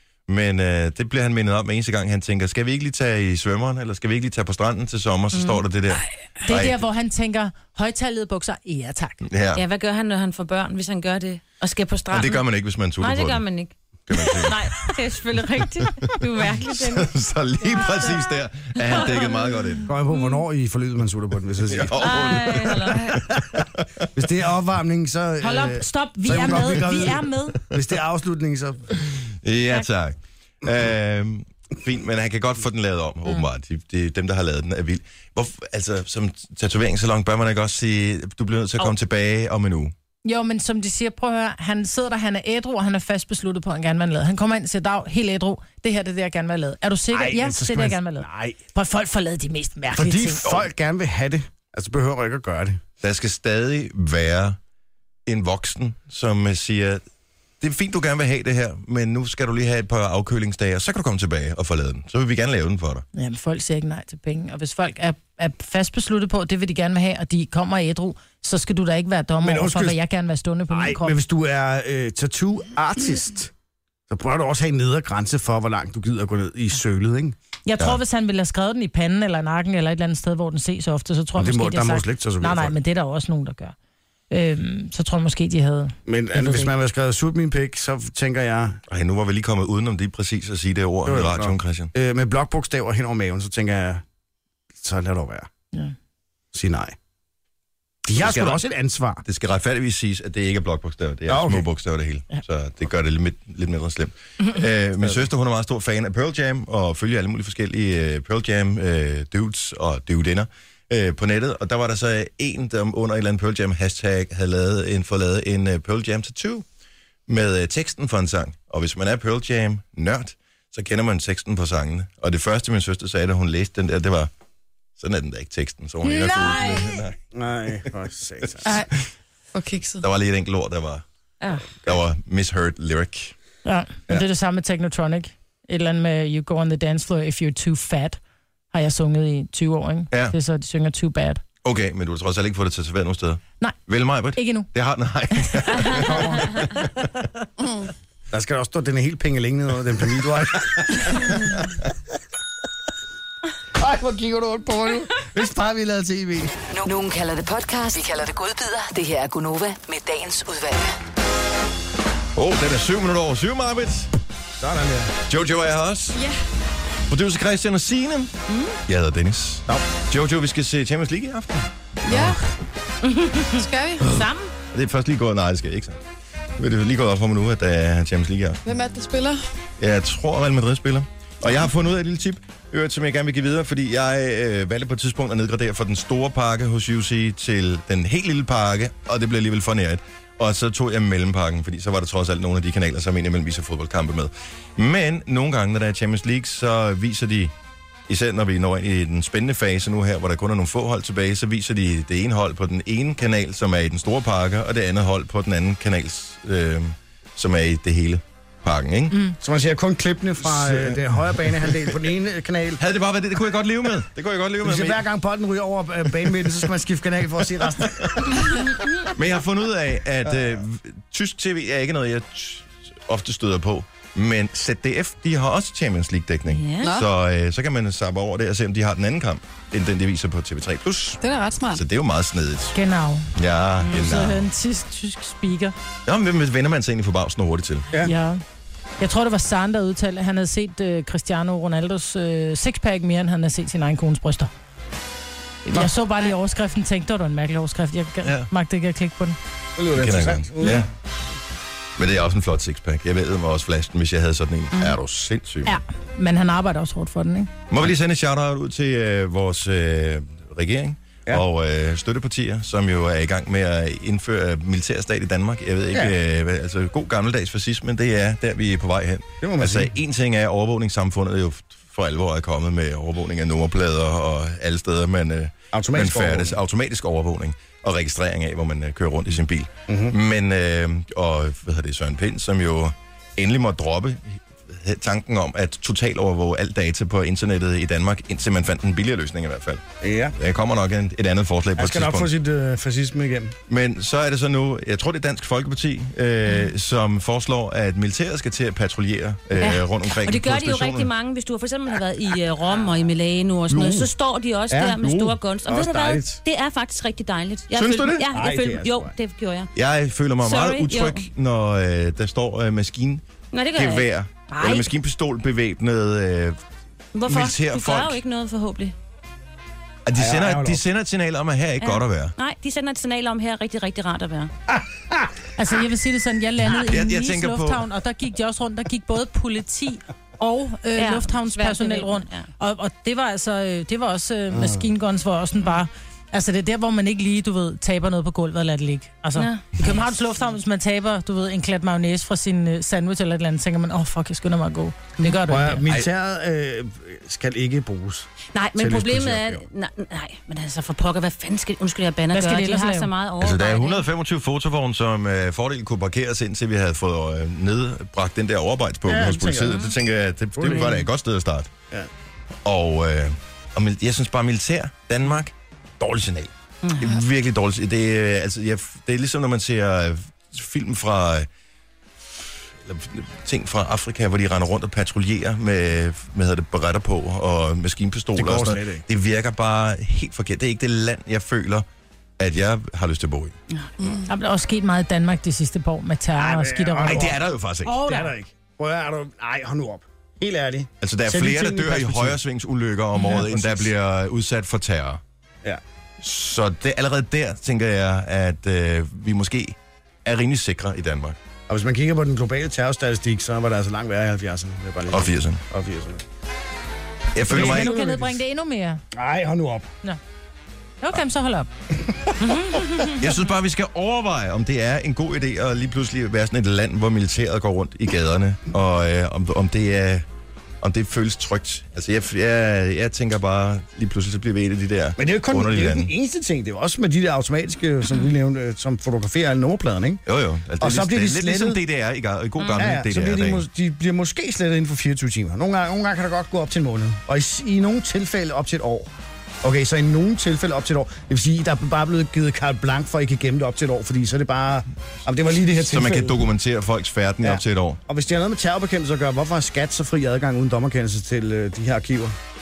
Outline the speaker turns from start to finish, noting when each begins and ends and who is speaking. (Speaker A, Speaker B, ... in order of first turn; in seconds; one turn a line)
Speaker A: 0.3-6.8
Speaker B: 5.3-5.6
Speaker C: 6.4-9.2
Speaker A: 9.3-9.6
Speaker B: 9.5-12.4
Speaker A: 12.1-13.4
Speaker B: 13.0-17.1
Speaker A: 14.1-14.9
Speaker A: 16.1-19.9
Speaker B: 17.6-20.3
Speaker D: 19.9-23.4
Speaker A: 21.7-24.1
Speaker B: 22.0-23.2
Speaker D: 24.1-28.9
Speaker C: 25.4-27.6
Speaker A: 29.4-39.9
Speaker C: 40.2-50.5
Speaker D: 47.1-48.6
Speaker D: 49.9-52.8
Speaker A: 53.0-54.6
Speaker A: 55.2-57.0
Speaker A: 57.6-63.0
Speaker C: 63.1-71.2
Speaker D: 69.4-70.0
Speaker D: 70.7-73.5
Speaker D: 74.1-77.3
Speaker C: 77.7-83.7
Speaker D: 81.3-82.8
Speaker C: 84.3-86.7
Speaker D: 86.1-88.8
Speaker A: 88.9-91.9
Speaker D: 91.0-94.0
Speaker D: 94.7-95.5
Speaker D: 96.5-97.0
Speaker D: 98.1-99.2
Speaker A: 98.2-98.6
Speaker A: 99.2-116.6
Speaker D: 101.2-101.7
Speaker A: 117.3-124.3
Speaker A: 125.0-127.2
Speaker C: 126.0-127.0
Speaker D: 127.3-128.7
Speaker E: 128.6-128.9
Speaker E: 129.5-130.0
Speaker A: 130.0-131.0
Speaker B: 131.4-131.7
Speaker A: 131.8-133.3
Speaker C: 133.6-138.2
Speaker C: 138.7-141.4
Speaker A: 141.6-147.1
Speaker C: 144.3-144.7
Speaker D: 145.9-146.6
Speaker E: 147.6-147.9
Speaker D: 148.3-151.3
Speaker D: 153.8-156.5
Speaker F: 156.7-161.0
Speaker A: 162.3-164.1
Speaker D: 164.6-165.1
Speaker A: 165.3-166.2
Speaker E: 166.1-166.4
Speaker A: 167.1-168.3
Speaker B: 168.5-168.8
Speaker A: 168.9-171.7
Speaker E: 172.1-172.4
Speaker B: 173.0-174.5
Speaker E: 173.5-174.1
Speaker A: 174.7-176.0
Speaker A: 176.6-178.6
Speaker E: 178.6-179.4
Speaker A: 179.8-197.5
Speaker A: 198.1-209.3
Speaker D: 209.4-212.8
Speaker A: 210.4-211.9
Speaker A: 212.8-215.0
Speaker D: 214.6-218.6
Speaker A: 218.0-218.4
Speaker A: 219.1-231.2
Speaker D: 220.2-220.6
Speaker B: 226.5-226.9
Speaker E: 226.8-227.1
Speaker E: 231.2-231.8
Speaker A: 231.7-232.8
Speaker C: 232.7-235.7
Speaker A: 233.3-234.5
Speaker A: 236.1-237.9
Speaker C: 238.0-238.4
Speaker C: 239.0-244.5
Speaker C: 245.6-249.4
Speaker A: 248.2-248.5
Speaker D: 249.8-250.9
Speaker A: 249.9-250.9
Speaker A: 252.0-255.8
Speaker C: 255.6-257.5
Speaker A: 257.7-289.8
Speaker D: 265.9-266.1
Speaker D: 269.4-270.0
Speaker D: 275.7-276.6
Speaker D: 279.9-280.1
Speaker D: 290.0-290.4
Speaker A: 290.4-292.3
Speaker D: 291.8-293.6
Speaker A: 293.7-301.1
Speaker B: 299.6-309.7
Speaker A: 303.7-304.1
Speaker D: 304.7-306.4
Speaker A: 305.0-305.3
Speaker A: 307.7-308.2
Speaker D: 308.3-309.1
Speaker A: 309.7-313.2
Speaker B: 310.4-311.3
Speaker B: 313.5-314.9
Speaker A: 313.7-316.6
Speaker B: 317.1-318.9
Speaker A: 317.3-318.2
Speaker A: 320.0-322.3
Speaker D: 320.1-320.8
Speaker B: 321.8-324.5
Speaker D: 324.7-325.3
Speaker C: 325.6-345.8
Speaker A: 326.6-327.8
Speaker B: 330.9-332.5
Speaker D: 334.5-334.9
Speaker B: 339.4-339.6
Speaker D: 345.4-349.6
Speaker B: 348.5-354.1
Speaker C: 352.3-353.1
Speaker A: 353.4-361.7
Speaker D: 359.0-359.9
Speaker D: 360.6-361.1
Speaker A: 362.6-371.5
Speaker B: 366.8-367.1
Speaker A: 372.8-381.9
Speaker D: 378.3-379.0
Speaker A: 382.4-383.5
Speaker E: 384.0-384.2
Speaker C: 384.3-388.3
Speaker D: 386.4-387.4
Speaker A: 387.0-388.0
Speaker D: 388.0-392.4
Speaker A: 391.0-395.2
Speaker D: 393.3-393.9
Speaker A: 396.2-401.4
Speaker D: 401.7-406.2
Speaker A: 405.1-405.6
Speaker A: 407.3-407.9
Speaker D: 407.4-408.4
Speaker C: 407.5-409.0
Speaker D: 409.1-409.9
Speaker C: 411.0-411.7
Speaker D: 412.0-412.3
Speaker B: 412.4-413.1
Speaker A: 413.2-420.2
Speaker A: 420.8-426.1
Speaker D: 425.2-430.2
Speaker A: 430.2-433.6
Speaker D: 430.8-431.8
Speaker B: 432.6-432.9
Speaker D: 432.8-439.1
Speaker D: 439.6-446.5
Speaker A: 445.8-448.0
Speaker D: 447.4-452.4